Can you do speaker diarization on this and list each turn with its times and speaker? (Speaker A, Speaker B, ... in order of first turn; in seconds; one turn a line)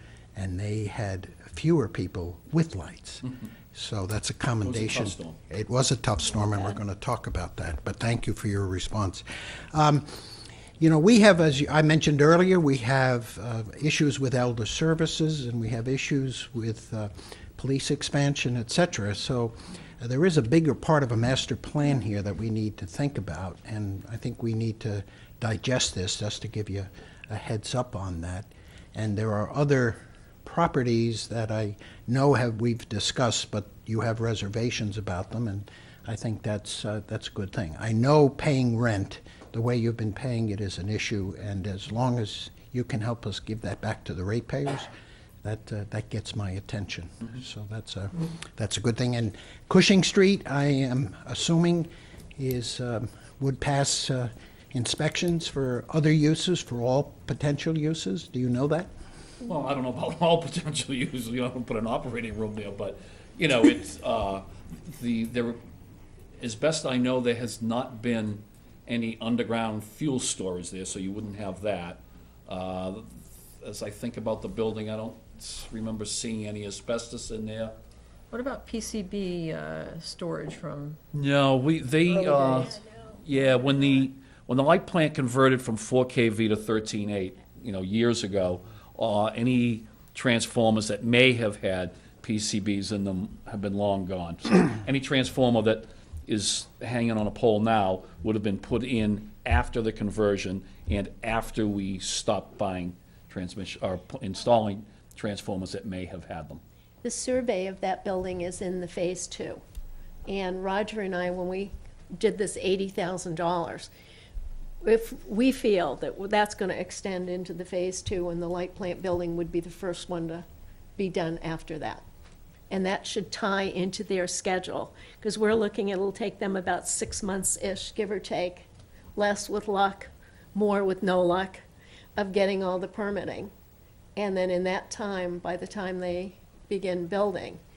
Speaker A: 0.3-44.9
Speaker B: 4.6-5.4
Speaker A: 45.4-58.9
Speaker B: 59.4-65.6
Speaker B: 66.4-77.8
Speaker C: 78.3-81.0
Speaker B: 81.1-106.6
Speaker D: 107.0-109.6
Speaker D: 110.3-113.9
Speaker D: 114.8-120.5
Speaker D: 121.0-122.0
Speaker D: 122.7-131.6
Speaker D: 132.2-133.5
Speaker D: 134.2-137.6